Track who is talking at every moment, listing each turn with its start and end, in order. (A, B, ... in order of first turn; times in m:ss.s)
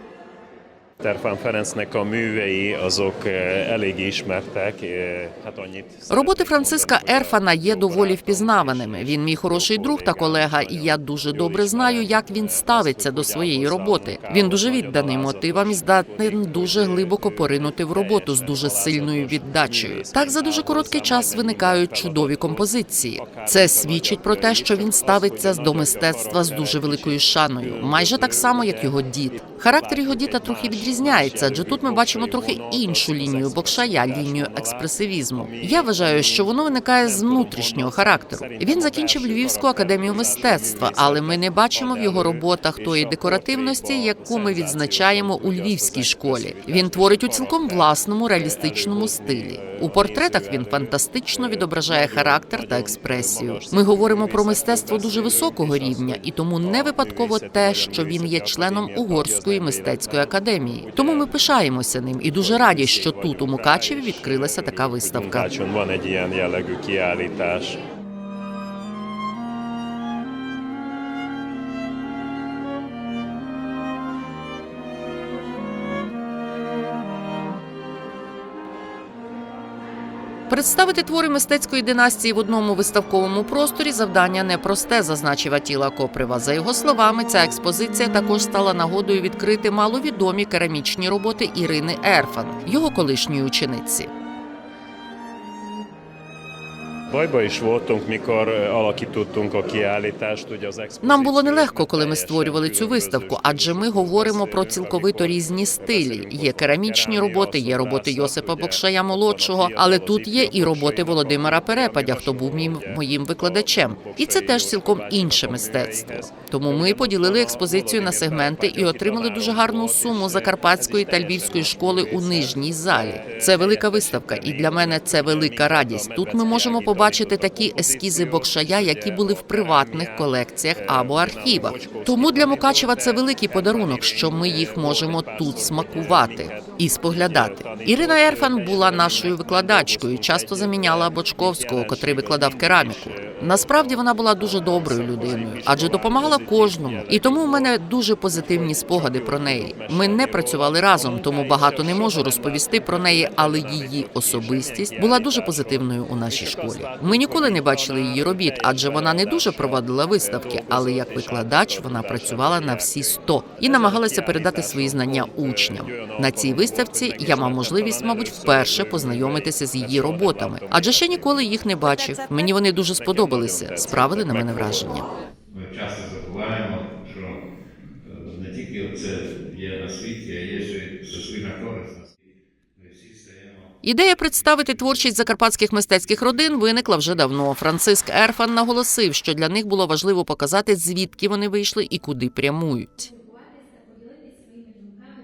0:01.0-1:01.4 A
0:06.1-1:05.5 B
1:02.2-1:07.8 A
1:20.5-1:34.1 B
1:37.1-2:51.4 A
1:41.0-2:55.1 B
2:52.6-2:55.0 A
2:55.5-2:57.4 C
2:58.0-3:02.1 C
3:02.8-3:05.2 C
3:03.8-3:13.1 B